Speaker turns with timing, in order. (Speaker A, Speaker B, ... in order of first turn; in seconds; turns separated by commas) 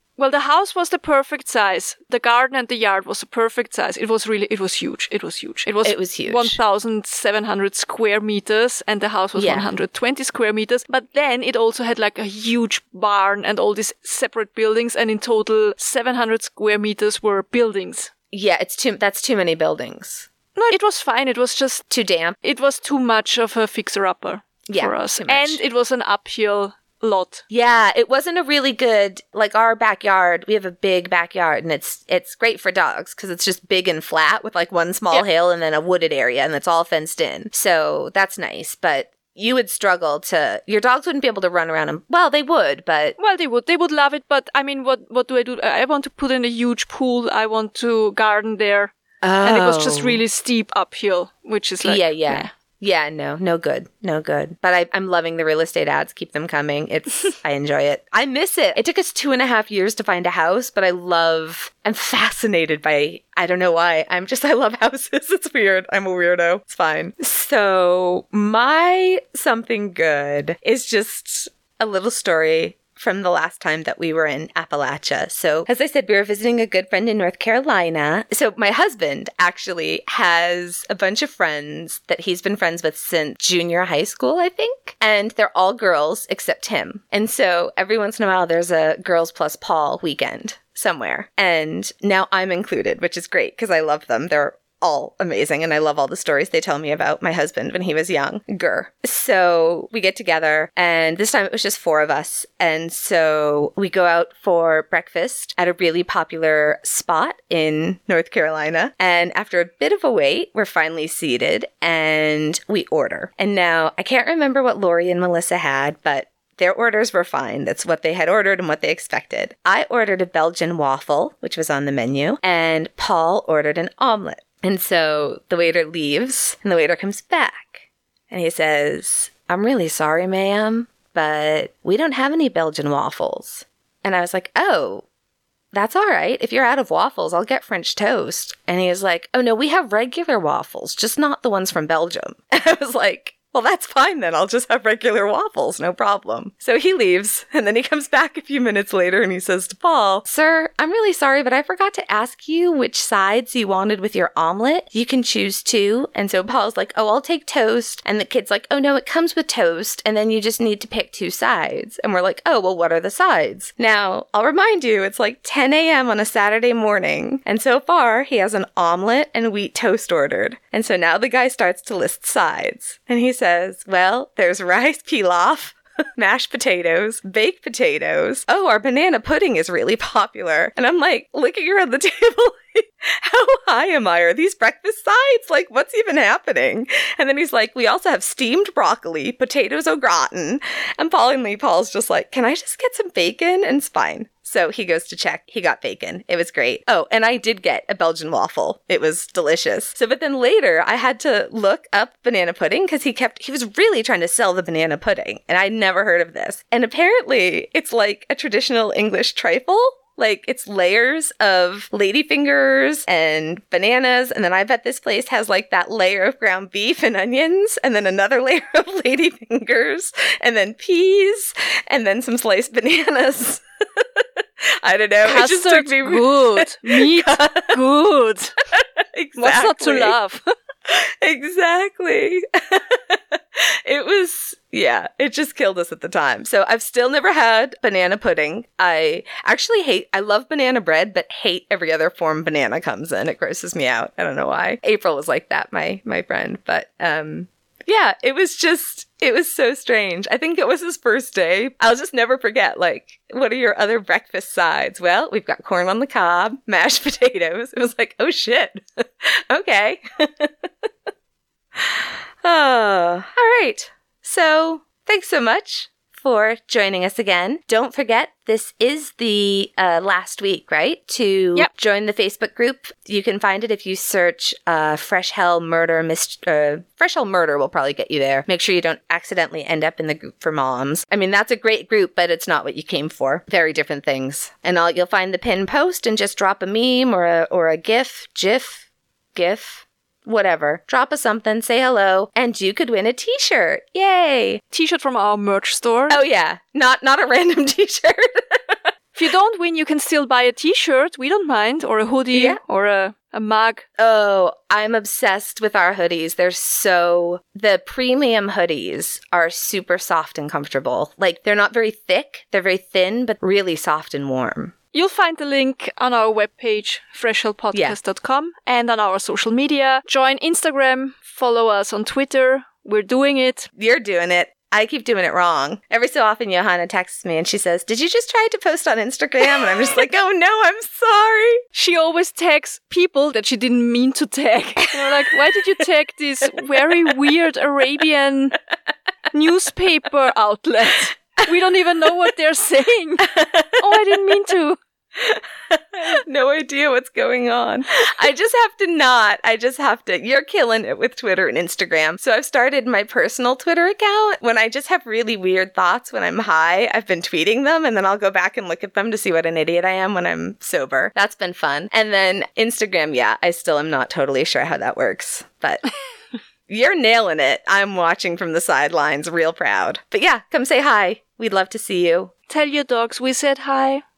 Speaker A: 0.2-18.1, Speaker B: 5.8-6.6, Speaker B: 9.3-9.7, Speaker B: 18.3-20.3, Speaker A: 20.6-21.9, Speaker B: 21.9-22.4, Speaker A: 22.4-27.4, Speaker B: 24.7-25.6, Speaker B: 27.5-43.2, Speaker A: 43.2-52.5, Speaker B: 49.2-50.2, Speaker B: 51.8-135.1, Speaker B: 135.7-224.2, Speaker B: 224.8-227.8, Speaker A: 225.2-228.5, Speaker B: 228.7-230.2, Speaker A: 229.4-230.4, Speaker B: 230.9-260.9, Speaker B: 261.8-294.6, Speaker A: 294.7-296.2, Speaker B: 296.1-298.9, Speaker A: 299.1-303.8, Speaker B: 302.3-302.6, Speaker B: 304.0-314.8, Speaker A: 314.9-323.7, Speaker B: 317.7-318.0, Speaker B: 323.8-331.6, Speaker A: 331.7-338.6, Speaker B: 335.0-335.3, Speaker B: 336.6-337.0, Speaker A: 339.3-344.8, Speaker B: 343.2-344.2, Speaker B: 345.2-365.9, Speaker B: 366.7-372.3, Speaker A: 372.5-374.0